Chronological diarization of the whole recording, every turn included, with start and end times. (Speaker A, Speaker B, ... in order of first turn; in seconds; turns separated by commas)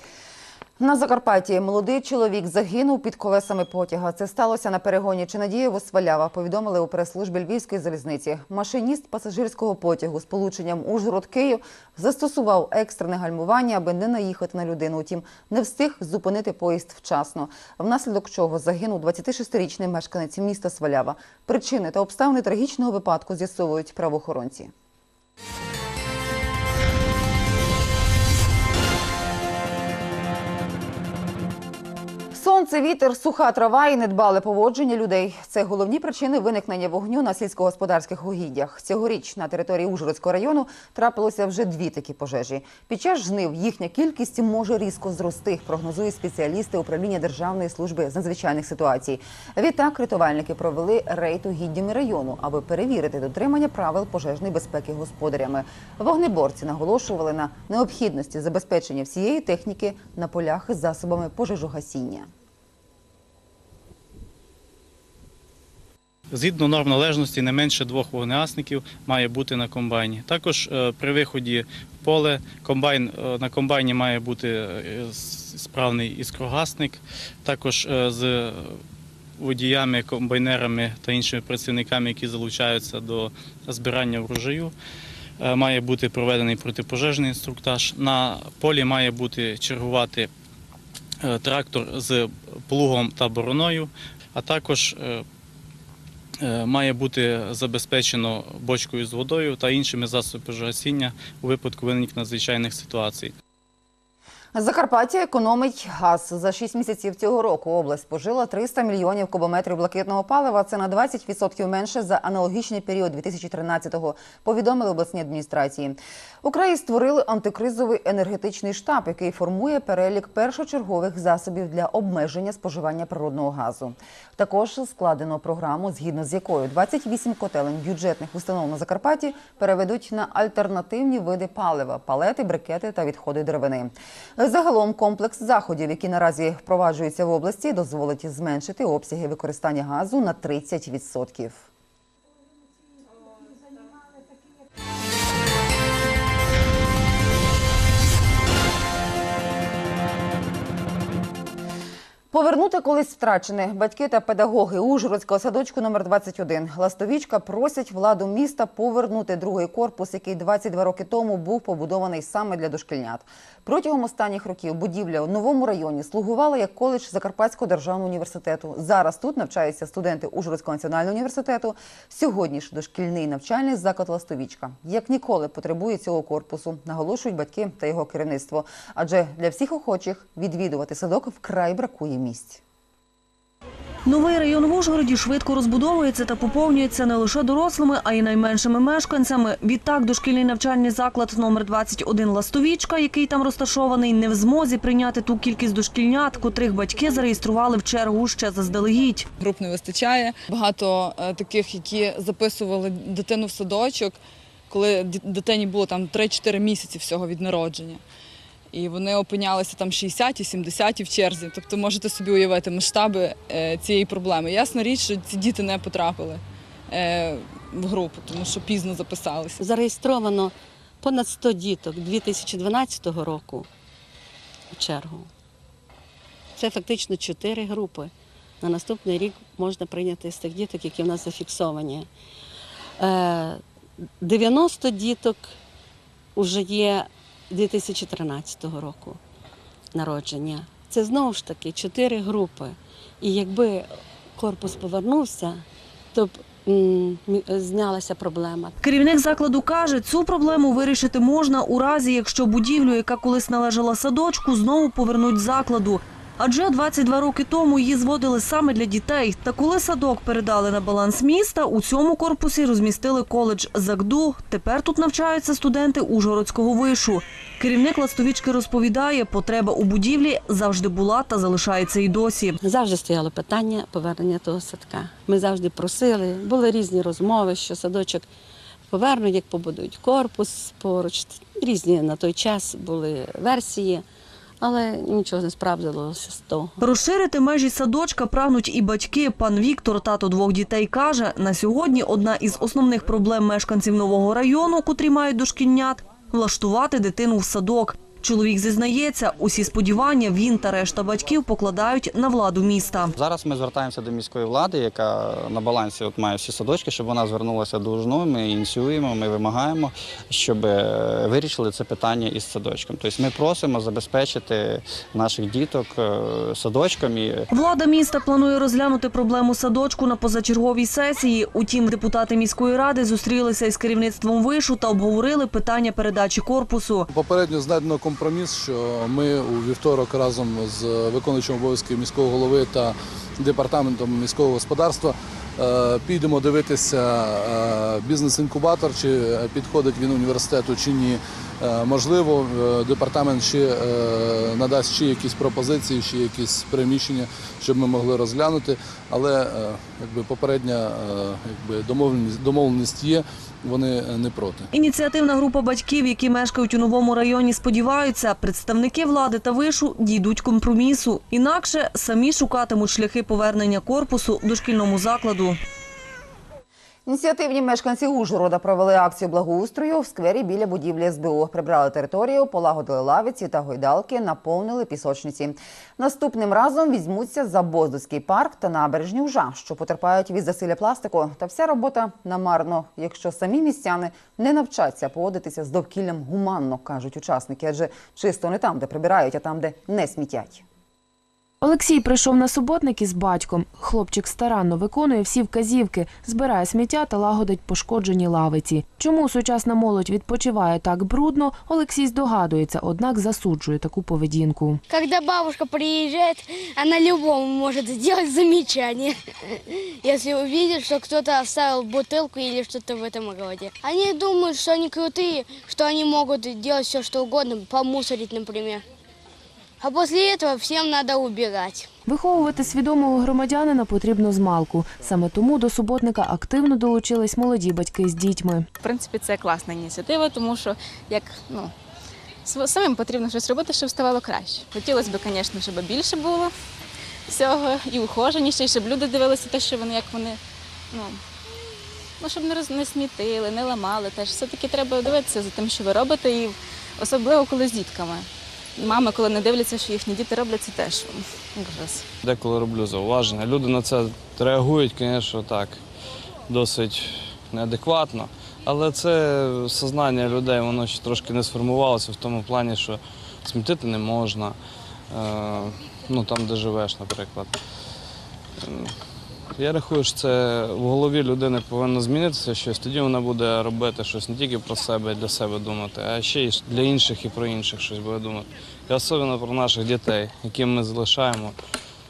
Speaker A: 0.8-24.7, Speaker A: 32.3-62.3, Speaker B: 66.3-78.8, Speaker B: 79.4-84.7, Speaker B: 85.4-90.3, Speaker B: 91.2-95.2, Speaker B: 96.4-103.3, Speaker A: 104.5-141.7, Speaker A: 152.3-182.6, Speaker C: 184.1-199.2, Speaker D: 199.4-204.2, Speaker D: 204.7-208.0, Speaker D: 208.7-219.5, Speaker E: 219.6-223.7, Speaker E: 224.7-225.3, Speaker E: 226.6-232.1, Speaker E: 233.0-233.6, Speaker E: 234.2-235.6, Speaker E: 236.4-239.2, Speaker E: 239.9-248.7, Speaker C: 248.8-272.6, Speaker E: 272.6-278.3, Speaker E: 278.9-284.0, Speaker E: 284.6-286.7, Speaker C: 286.8-303.1, Speaker F: 303.2-317.4, Speaker C: 317.5-327.1, Speaker G: 327.1-354.7, Speaker C: 354.7-365.6, Speaker A: 367.1-390.6, Speaker H: 391.6-404.8, Speaker I: 404.9-418.8, Speaker I: 419.8-421.9, Speaker H: 422.1-428.7, Speaker J: 428.8-431.7, Speaker J: 432.5-436.5, Speaker J: 437.3-440.4, Speaker J: 440.9-441.2, Speaker J: 442.2-452.1, Speaker K: 452.2-455.8, Speaker K: 456.5-464.6, Speaker K: 465.1-467.6, Speaker K: 468.6-468.9, Speaker K: 469.6-481.6